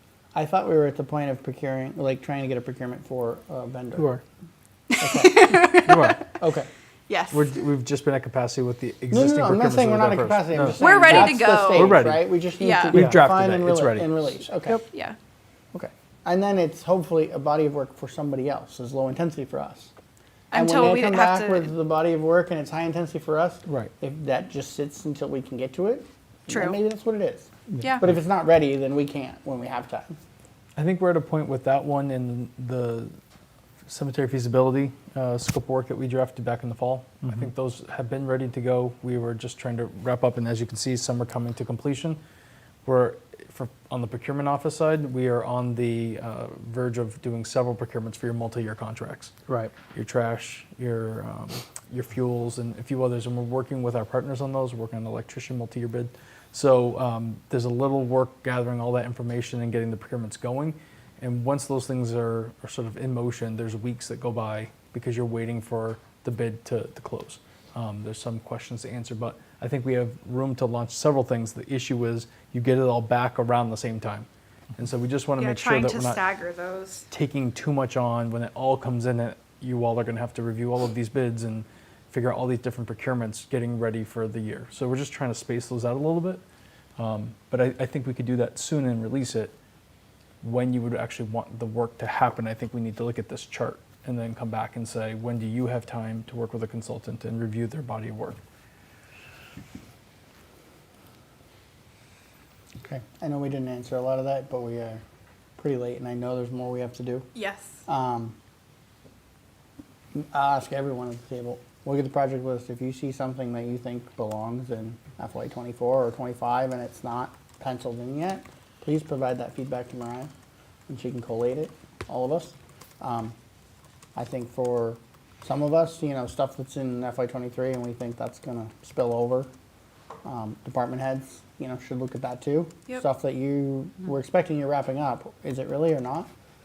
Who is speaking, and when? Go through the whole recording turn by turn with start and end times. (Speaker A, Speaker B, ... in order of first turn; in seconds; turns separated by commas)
Speaker A: 0.3-4.1, Speaker B: 4.9-6.2, Speaker A: 5.0-6.7, Speaker C: 5.9-6.2, Speaker B: 7.1-7.5, Speaker C: 7.3-12.3, Speaker A: 9.1-14.8, Speaker B: 10.8-11.9, Speaker B: 12.6-13.0, Speaker C: 12.9-14.2, Speaker B: 14.7-15.2, Speaker A: 15.7-19.9, Speaker B: 20.5-21.7, Speaker A: 20.5-30.2, Speaker B: 26.5-26.8, Speaker C: 30.8-33.1, Speaker C: 33.9-42.2, Speaker C: 42.9-76.2, Speaker B: 75.4-77.0, Speaker C: 77.1-86.4, Speaker C: 87.0-89.5, Speaker C: 90.4-98.4, Speaker A: 102.8-105.0, Speaker A: 105.6-107.3, Speaker B: 107.3-107.8, Speaker A: 107.9-108.4, Speaker A: 110.1-120.3, Speaker A: 120.9-123.3, Speaker A: 124.2-129.5, Speaker A: 130.2-136.3